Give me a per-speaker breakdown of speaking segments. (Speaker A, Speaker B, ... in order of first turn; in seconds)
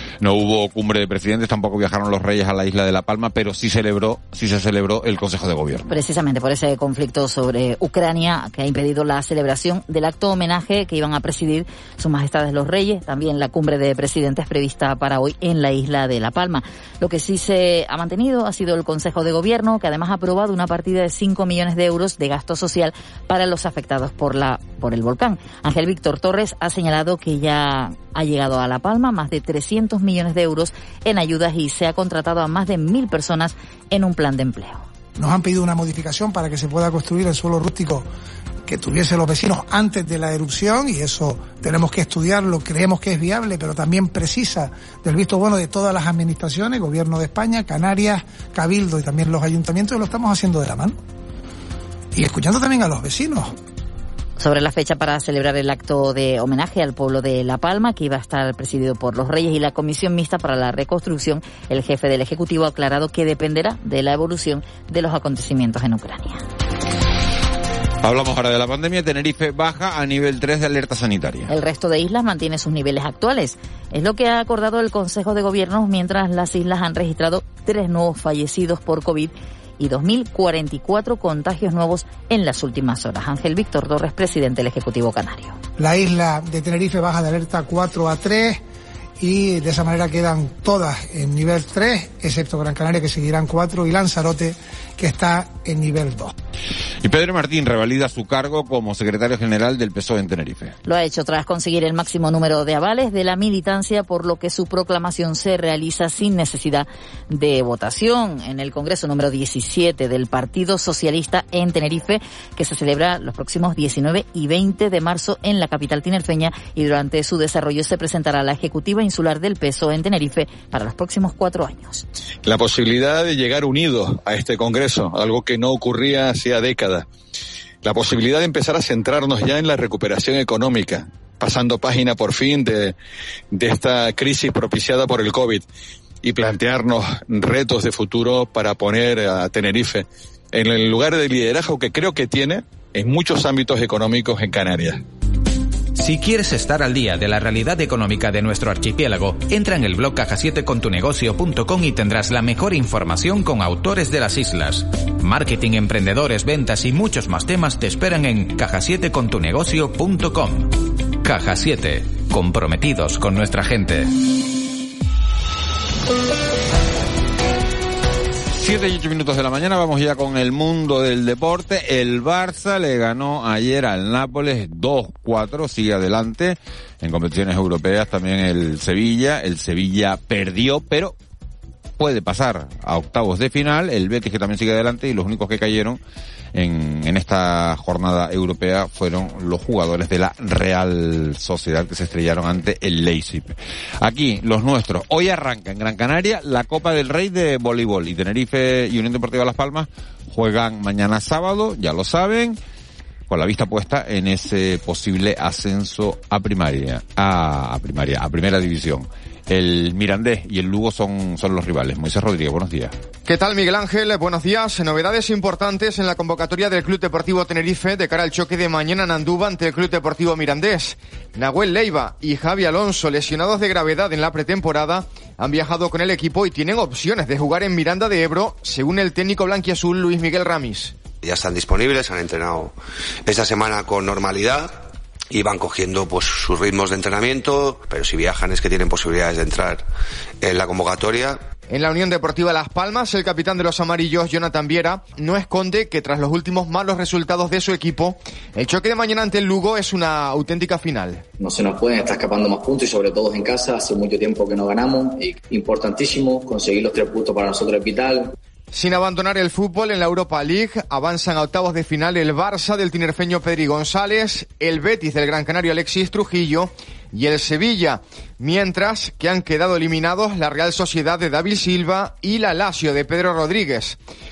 Speaker A: 0.2-6.0, 68.0-71.5, 97.0-100.8, 168.5-181.1, 182.0-186.0, 186.5-202.6, 203.3-212.9
Speaker B: 5.9-34.8, 54.4-66.4, 71.5-85.6, 100.8-122.0
Speaker C: 35.2-38.0, 38.6-51.0, 52.1-53.5, 85.8-88.6, 89.2-96.3
Speaker D: 122.4-127.1, 127.8-132.9, 133.5-135.7, 136.2-145.0
Speaker E: 145.9-164.1
Speaker F: 213.2-231.0, 241.7-251.2, 258.7-274.0
Speaker G: 231.2-232.7, 233.2-234.8, 235.3-239.8, 240.4-241.4
Speaker H: 251.4-258.3